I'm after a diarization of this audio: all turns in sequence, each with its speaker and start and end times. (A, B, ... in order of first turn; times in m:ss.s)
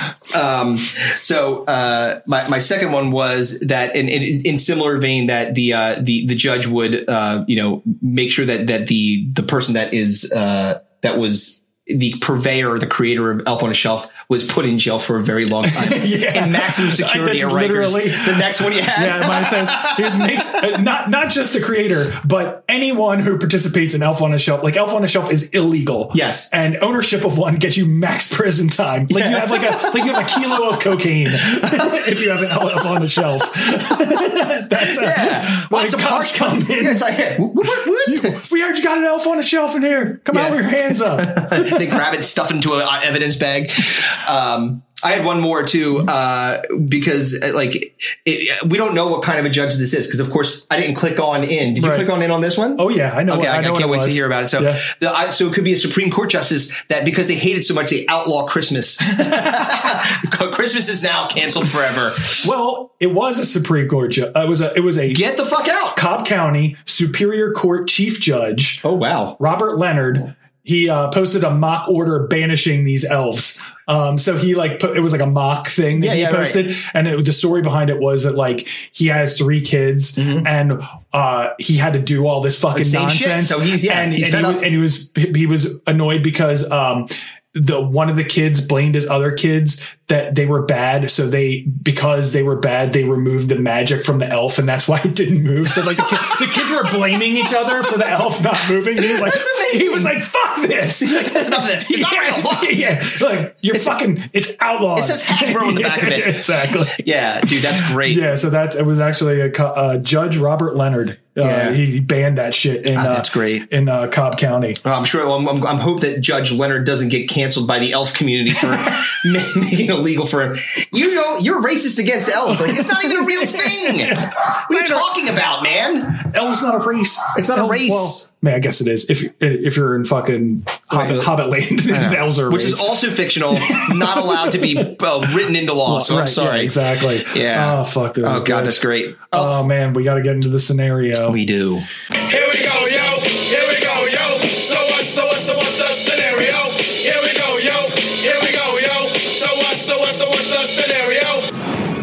0:00.3-0:20.7 A
0:15.6-0:37.0 B
0:26.1-0:26.5 A
0:29.1-0:30.8 A
0:31.4-0:32.4 A
0:34.8-0:38.5 A
0:38.0-0:41.9 B
0:40.3-1:02.4 A
0:51.8-0:52.1 B
0:52.8-0:54.8 B
1:02.4-1:05.2 B
1:05.1-1:06.0 A
1:05.9-1:08.8 B
1:08.8-1:09.4 A
1:09.4-1:54.8 B
1:16.0-1:16.7 A
1:20.2-1:20.5 A
1:22.7-1:24.6 A
1:35.9-1:36.9 A
1:39.0-1:40.2 A
1:40.9-1:42.8 A
1:43.7-1:44.0 A
1:44.9-1:48.3 A
1:51.4-1:51.8 A
1:52.9-1:53.6 A
1:54.8-2:06.2 A
2:02.5-2:05.1 B
2:06.1-2:12.9 B
2:07.3-2:08.2 A
2:10.9-2:11.3 A
2:11.9-2:19.6 A
2:13.6-2:14.9 B
2:15.8-2:21.4 B
2:21.2-2:21.9 A
2:22.2-2:31.5 C